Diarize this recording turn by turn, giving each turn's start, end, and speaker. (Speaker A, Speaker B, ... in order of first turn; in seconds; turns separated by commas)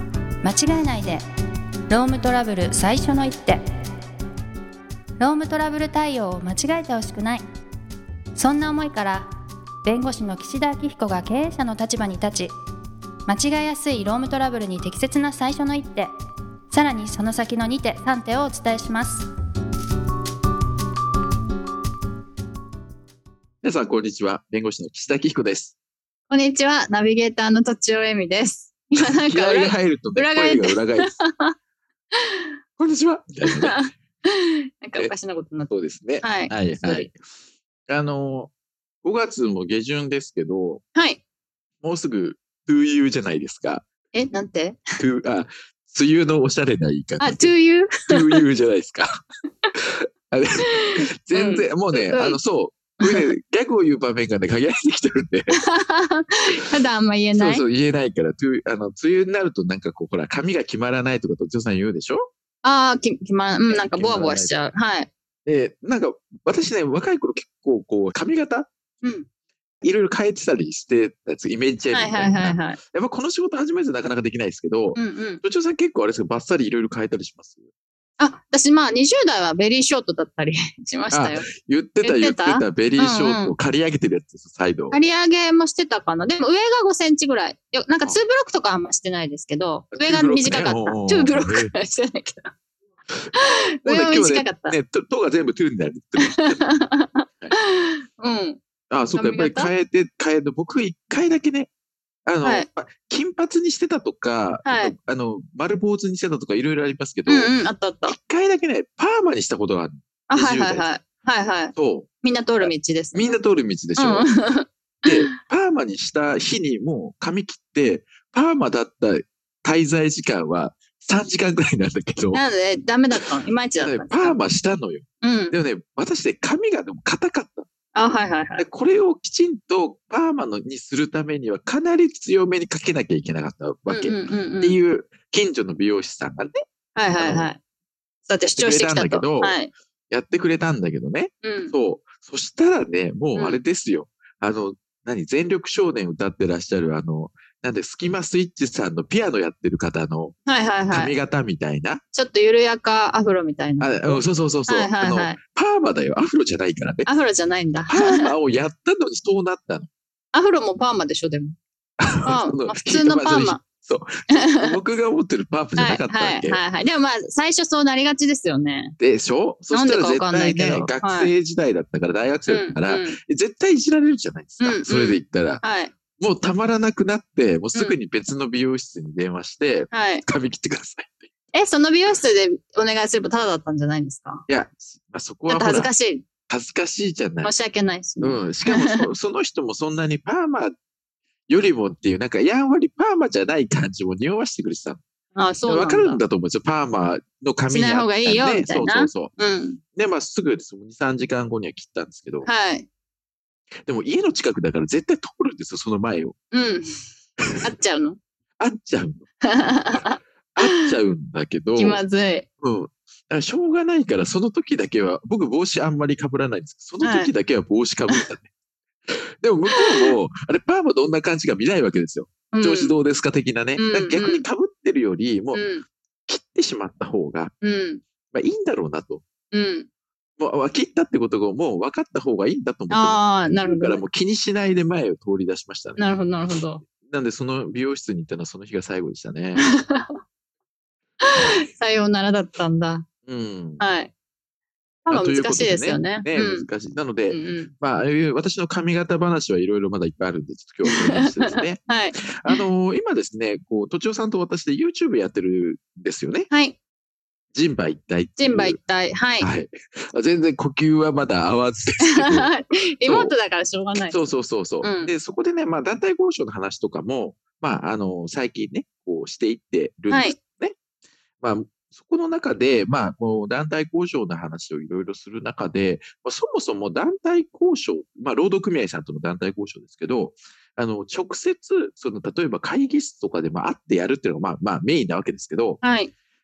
Speaker A: 0.4-1.2, Speaker A: 1.9-3.6, Speaker A: 5.2-7.5, Speaker A: 8.4-9.3, Speaker A: 9.8-12.5, Speaker A: 13.3-16.1, Speaker A: 16.7-19.3, Speaker B: 23.6-25.7, Speaker C: 26.3-31.5, Speaker B: 29.0-31.2, Speaker C: 32.2-32.4, Speaker B: 32.8-33.8, Speaker C: 33.5-35.7, Speaker B: 35.7-37.2, Speaker C: 36.2-37.1, Speaker B: 37.9-38.5, Speaker B: 39.0-40.8, Speaker B: 41.8-43.9, Speaker C: 44.1-44.8, Speaker B: 45.0-47.5, Speaker C: 47.2-48.5, Speaker B: 48.1-49.1, Speaker B: 50.3-55.6, Speaker C: 50.8-52.4, Speaker C: 55.5-57.6, Speaker B: 57.3-62.3, Speaker C: 62.6-65.1, Speaker B: 63.7-64.5, Speaker B: 65.5-68.7, Speaker B: 69.8-77.6, Speaker C: 71.9-72.8, Speaker C: 75.0-75.4, Speaker C: 78.2-81.5, Speaker B: 81.1-85.0, Speaker C: 82.0-83.5, Speaker C: 84.9-92.5, Speaker B: 89.9-91.7, Speaker C: 93.3-94.8, Speaker B: 93.8-96.6, Speaker C: 96.2-98.6, Speaker B: 98.9-101.7, Speaker C: 99.1-99.7, Speaker B: 102.2-107.5, Speaker C: 102.4-102.7, Speaker C: 104.7-105.0, Speaker C: 107.3-108.2, Speaker B: 108.1-110.9, Speaker C: 110.3-113.4, Speaker B: 111.8-112.1, Speaker B: 112.6-114.3, Speaker C: 114.0-115.2, Speaker B: 115.0-122.4, Speaker C: 122.3-124.4, Speaker B: 123.8-127.7, Speaker C: 125.2-125.5, Speaker C: 128.0-128.6, Speaker B: 128.6-136.5, Speaker C: 133.9-134.8, Speaker C: 136.9-137.6, Speaker B: 137.2-137.5, Speaker C: 138.2-139.7, Speaker B: 138.5-150.4, Speaker C: 141.4-141.7, Speaker C: 143.3-143.6, Speaker C: 150.5-151.1, Speaker B: 150.9-152.0, Speaker C: 152.1-155.4, Speaker B: 153.8-157.1, Speaker C: 157.1-158.3, Speaker B: 157.9-159.9, Speaker C: 160.3-161.6, Speaker B: 162.0-166.6, Speaker C: 162.2-163.6, Speaker C: 164.3-164.8, Speaker C: 165.8-168.9, Speaker B: 169.0-181.3, Speaker C: 169.7-171.3, Speaker C: 172.5-173.2, Speaker C: 174.6-175.9, Speaker C: 179.9-180.2, Speaker C: 181.5-184.4, Speaker B: 184.5-185.9, Speaker C: 185.5-186.2, Speaker B: 186.5-187.5, Speaker C: 187.4-189.1, Speaker B: 188.2-190.7, Speaker B: 191.5-195.0, Speaker C: 195.3-196.2, Speaker B: 195.7-199.3, Speaker C: 197.7-199.8, Speaker B: 199.9-202.5, Speaker C: 202.4-202.9, Speaker B: 203.8-206.3, Speaker C: 206.5-207.0, Speaker B: 207.4-207.7, Speaker C: 207.6-208.2, Speaker B: 208.6-209.3, Speaker C: 209.4-210.8, Speaker B: 210.6-212.0, Speaker C: 211.8-212.4, Speaker B: 212.6-218.5, Speaker C: 217.0-217.3, Speaker B: 219.1-225.7, Speaker C: 219.7-220.1, Speaker C: 222.5-222.9, Speaker C: 223.8-224.4, Speaker C: 225.5-225.8, Speaker B: 226.2-227.5, Speaker C: 227.6-228.0, Speaker B: 228.3-229.2, Speaker C: 229.5-229.9, Speaker B: 230.4-236.0, Speaker C: 232.9-234.0, Speaker C: 236.0-236.8, Speaker B: 236.8-239.7, Speaker C: 239.6-240.2, Speaker C: 241.2-243.1, Speaker B: 243.2-243.8, Speaker C: 243.8-244.1, Speaker C: 245.1-246.7, Speaker B: 245.1-256.5, Speaker C: 247.3-247.7, Speaker C: 250.9-252.6, Speaker C: 256.5-256.8, Speaker B: 257.5-258.8, Speaker C: 258.4-259.5, Speaker B: 259.4-262.5, Speaker C: 262.0-264.2, Speaker B: 263.1-263.3, Speaker B: 264.1-270.8, Speaker C: 264.8-265.1, Speaker C: 270.1-270.4, Speaker B: 271.4-285.8, Speaker C: 285.8-286.1